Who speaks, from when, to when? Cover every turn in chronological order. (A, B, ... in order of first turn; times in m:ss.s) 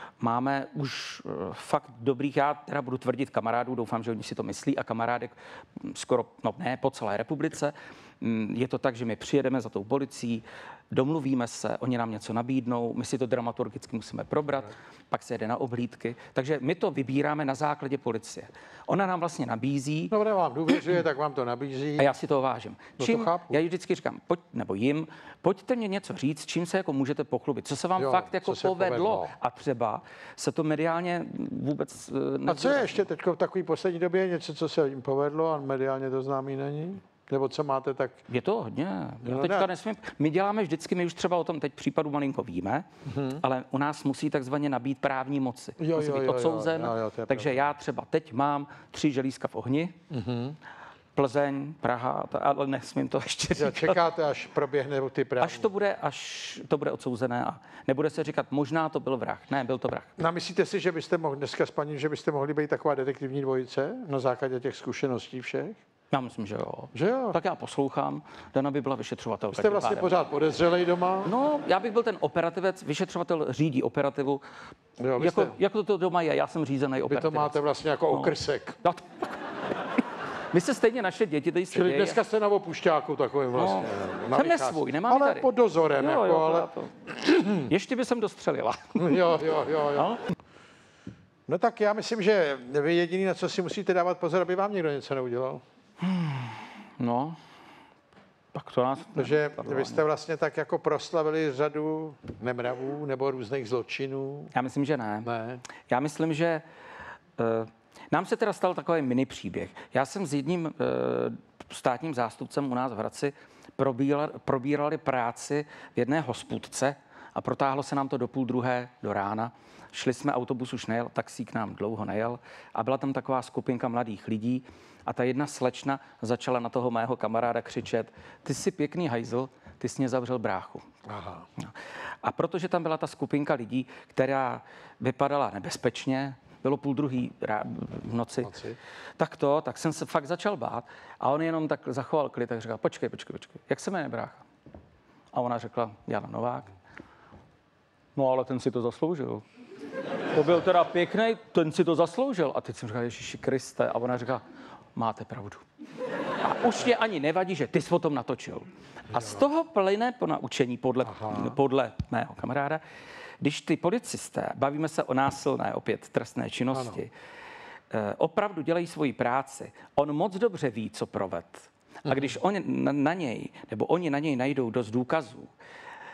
0:00.2-0:20.2 A
0:20.1-0:22.1 B
0:22.0-0:33.1 A
0:23.0-0:23.6 B
0:28.0-0:29.3 B
0:32.5-0:38.2 B
0:38.3-0:50.0 A
0:39.2-0:39.7 B
0:43.1-0:43.4 B
0:45.8-0:47.7 B
0:50.1-0:50.6 B
0:51.2-0:54.0 A
0:53.6-0:55.7 B
0:55.4-1:00.2 A
1:00.2-1:05.8 B
1:06.1-1:10.2 A
1:06.9-1:07.4 B
1:09.5-1:11.3 B
1:11.2-1:14.4 A
1:15.0-1:15.6 B
1:15.2-1:19.4 A
1:17.0-1:18.8 B
1:20.5-1:22.2 A
1:21.7-1:26.7 B
1:23.6-1:30.2 A
1:29.0-1:30.1 B
1:31.5-1:35.6 B
1:36.0-1:37.4 A
1:38.5-1:40.0 A
1:39.2-1:44.5 B
1:44.5-1:45.3 A
1:45.2-1:45.6 B
1:45.9-1:46.6 A
1:47.4-2:10.8 A
2:11.1-2:11.5 B
2:11.6-2:18.5 A
2:18.4-2:18.8 B
2:19.2-2:24.4 A
2:25.3-2:26.7 A
2:28.2-2:29.4 A
2:30.3-2:34.4 A
2:35.0-2:35.6 A
2:36.4-2:42.8 A
2:39.1-2:39.4 B
2:41.1-2:41.6 B
2:43.4-2:47.1 A
2:46.7-2:47.0 B
2:47.9-2:55.5 A